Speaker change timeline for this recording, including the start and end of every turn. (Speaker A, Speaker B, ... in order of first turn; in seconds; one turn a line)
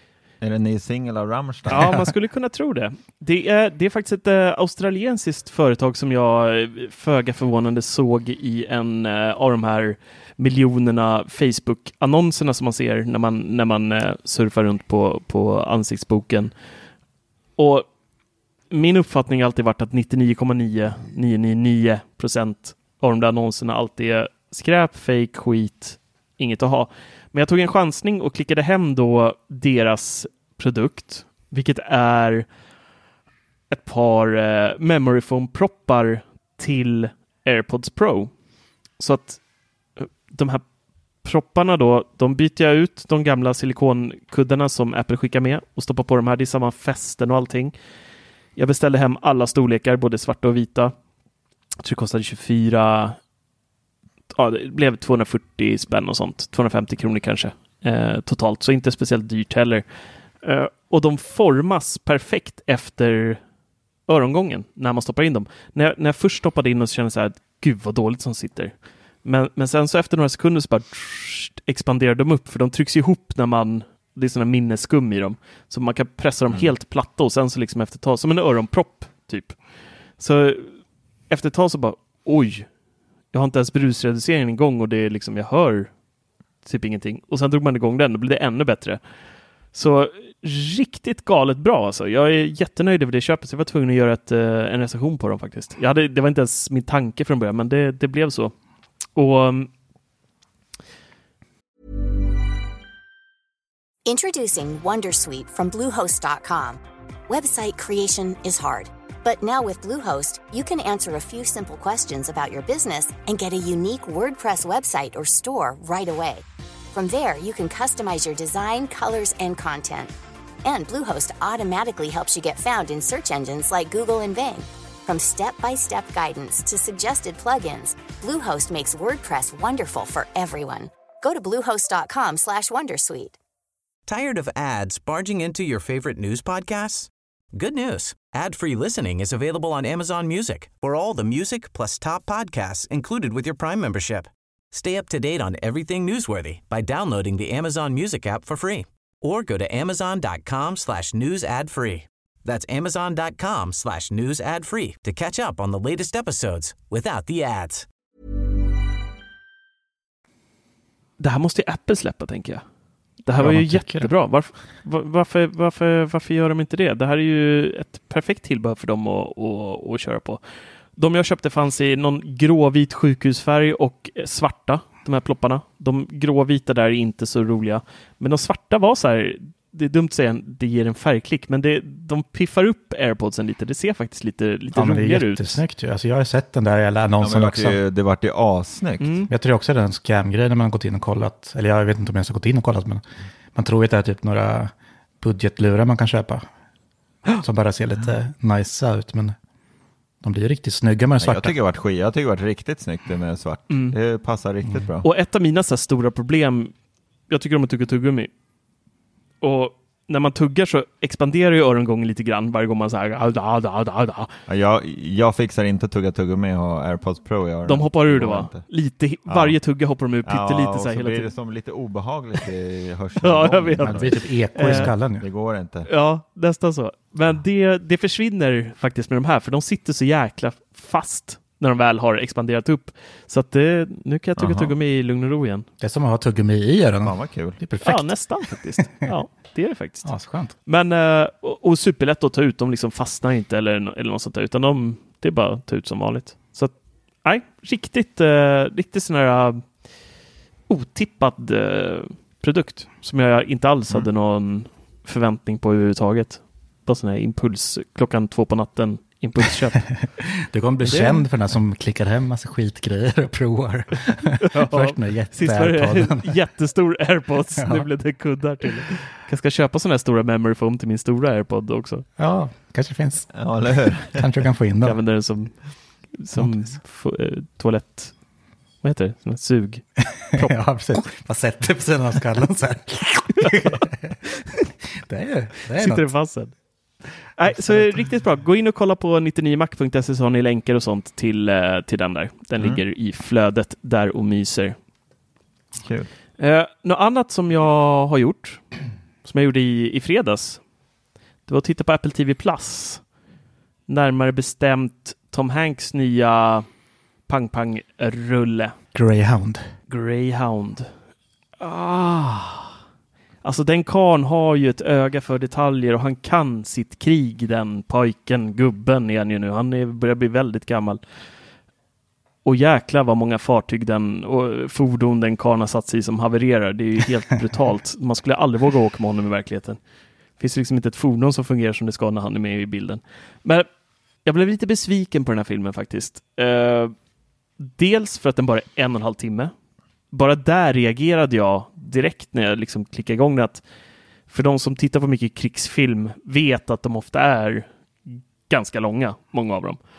Speaker A: 0.4-1.9
Speaker B: 1.7-16.6
Speaker B: 17.6-17.9
Speaker B: 18.7-32.5
Speaker B: 33.7-38.3
Speaker B: 39.0-39.4
Speaker B: 40.0-40.6
Speaker B: 41.2-47.8
Speaker B: 48.6-50.9
Speaker B: 51.8-53.2
Speaker B: 54.4-59.9
Speaker B: 60.4-63.4
Speaker B: 64.1-79.6
Speaker B: 80.2-80.8
Speaker B: 81.3-82.7
Speaker B: 83.3-85.9
Speaker B: 86.6-89.0
Speaker B: 89.7-98.5
Speaker B: 99.2-99.7
Speaker C: 104.0-120.1
Speaker C: 120.6-133.4
Speaker D: 134.1-157.9
Speaker B: 161.2-162.6
Speaker B: 163.2-170.4
Speaker E: 163.4-164.1
Speaker B: 171.0-185.6
Speaker E: 184.7-187.8
Speaker A: 187.2-189.2
Speaker B: 189.0-189.3
Speaker E: 189.3-193.0
Speaker E: 193.6-196.4
Speaker E: 197.4-199.4
Speaker E: 200.2-201.6
Speaker A: 201.2-205.1
Speaker E: 204.7-204.9
Speaker B: 205.0-206.7
Speaker B: 207.3-208.3
Speaker B: 209.4-214.3
Speaker A: 214.5-218.7
Speaker B: 217.7-221.3
Speaker A: 219.3-219.6
Speaker A: 220.3-225.9
Speaker B: 223.2-224.9
Speaker E: 223.8-225.3
Speaker B: 225.9-235.7
Speaker A: 234.4-234.7
Speaker E: 235.8-238.2
Speaker A: 237.0-237.6
Speaker B: 237.8-240.1
Speaker E: 240.0-240.5
Speaker B: 240.7-249.8
Speaker B: 250.7-259.9
Speaker E: 260.0-266.4
Speaker B: 260.8-261.2
Speaker B: 264.4-272.1
Speaker E: 267.6-267.9
Speaker E: 272.2-273.5
Speaker A: 273.3-274.3
Speaker E: 274.1-275.0
Speaker B: 274.8-278.1
Speaker E: 276.3-276.8
Speaker B: 278.8-280.6
Speaker E: 280.1-284.2
Speaker E: 285.1-286.1
Speaker B: 285.8-286.5
Speaker B: 287.4-294.8
Speaker E: 287.5-288.1
Speaker A: 295.8-296.1
Speaker B: 296.4-298.6
Speaker B: 299.2-300.6
Speaker B: 301.5-303.1
Speaker B: 303.9-306.7
Speaker B: 307.3-308.8
Speaker E: 308.9-309.7
Speaker B: 309.9-310.9
Speaker B: 311.6-312.7
Speaker B: 313.4-321.0
Speaker B: 322.4-329.8
Speaker B: 330.4-333.7
Speaker B: 334.2-336.9
Speaker B: 337.6-339.5
Speaker B: 340.1-343.6
Speaker B: 344.3-349.8